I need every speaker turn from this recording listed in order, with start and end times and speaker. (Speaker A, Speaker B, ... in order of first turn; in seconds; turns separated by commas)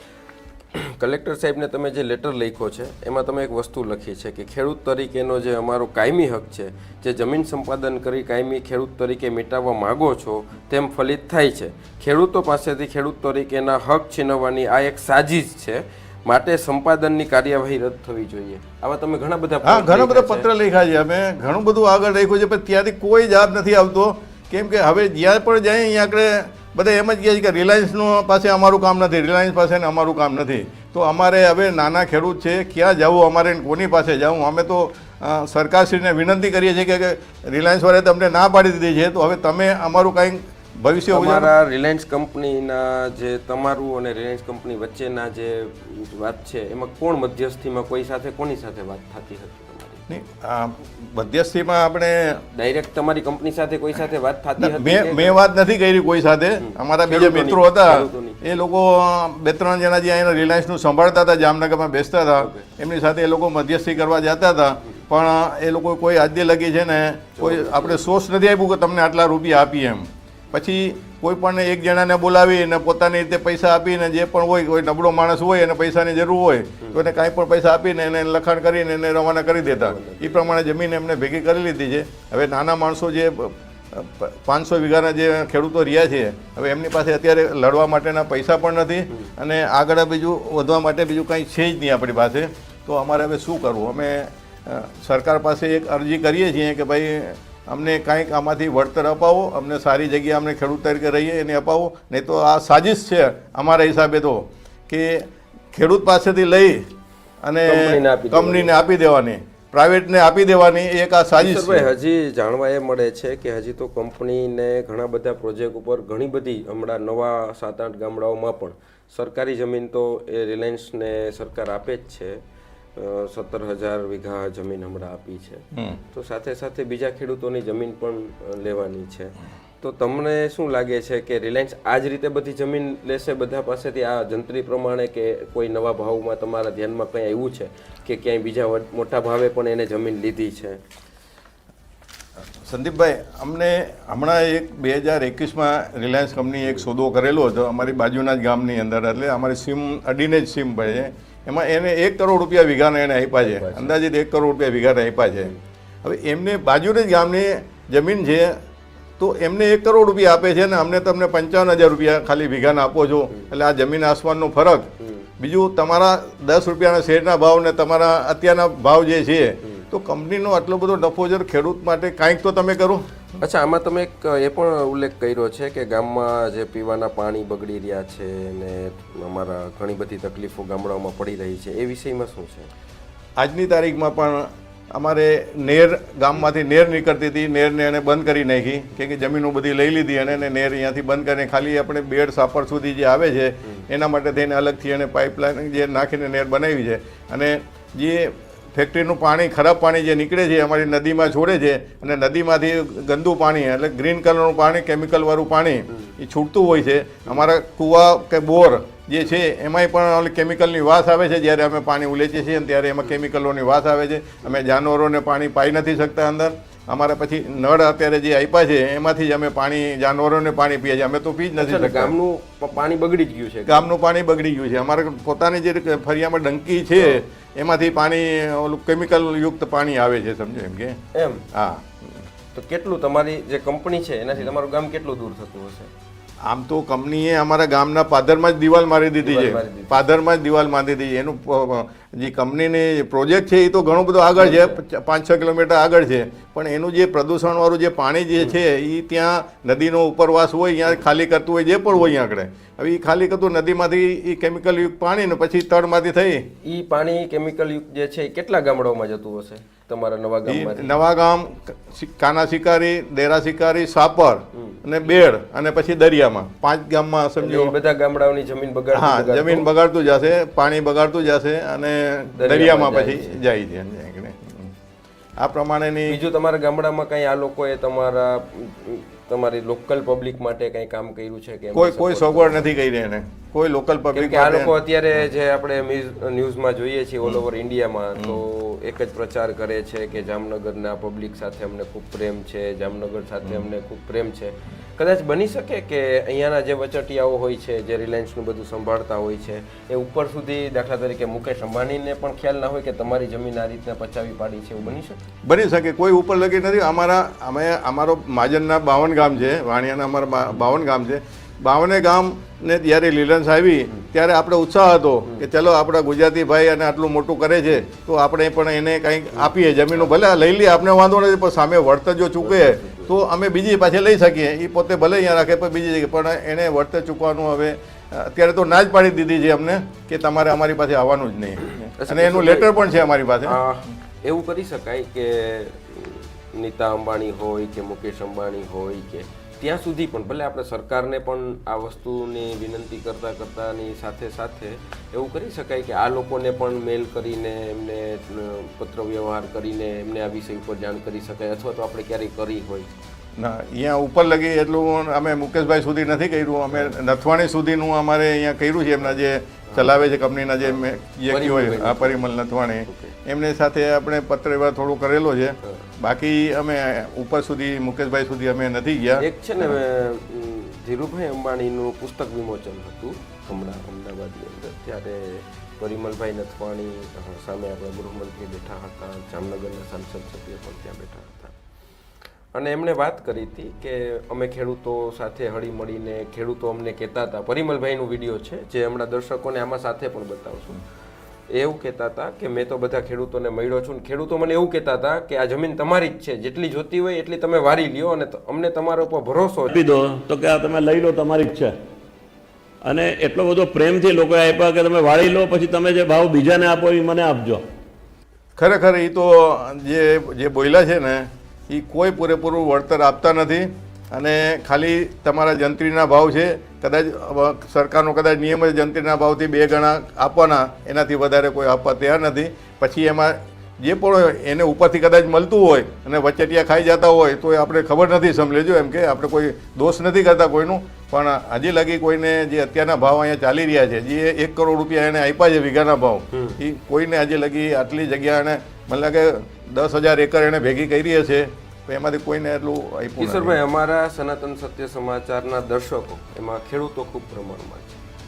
Speaker A: 0.7-20.5, Speaker B: 19.6-41.5, Speaker A: 41.1-50.1, Speaker B: 50.1-52.4, Speaker A: 52.5-55.4, Speaker B: 54.6-106.9, Speaker A: 56.6-58.4, Speaker A: 62.4-62.7, Speaker A: 67.4-68.0, Speaker A: 79.6-80.5, Speaker B: 107.4-111.9, Speaker A: 107.6-108.7, Speaker A: 111.4-122.4, Speaker A: 123.0-140.8, Speaker B: 125.7-126.0, Speaker B: 142.6-158.6, Speaker A: 153.4-153.9, Speaker B: 159.2-173.1, Speaker A: 165.0-165.3, Speaker A: 173.4-182.7, Speaker B: 183.4-222.1, Speaker A: 221.6-223.9, Speaker B: 223.7-231.0, Speaker A: 231.1-231.4, Speaker B: 231.5-232.2, Speaker A: 232.5-235.9, Speaker B: 236.4-256.5, Speaker A: 239.2-240.0, Speaker A: 244.3-244.8, Speaker A: 256.6-260.9, Speaker B: 260.4-267.7, Speaker A: 264.5-264.8, Speaker A: 267.4-269.7, Speaker B: 268.9-274.7, Speaker A: 272.4-273.4, Speaker B: 275.4-276.2, Speaker A: 276.1-282.7, Speaker B: 281.7-284.7, Speaker A: 284.1-305.2, Speaker B: 305.4-333.6, Speaker A: 322.4-323.1, Speaker A: 332.0-332.8, Speaker A: 333.4-352.9, Speaker B: 353.4-369.8, Speaker A: 359.7-359.9, Speaker A: 360.6-362.3, Speaker A: 362.9-363.1, Speaker A: 369.2-381.5, Speaker A: 382.5-390.8, Speaker A: 391.5-399.8, Speaker C: 399.7-401.7, Speaker C: 402.8-407.6, Speaker B: 408.6-443.6, Speaker A: 436.3-436.6, Speaker A: 443.2-448.0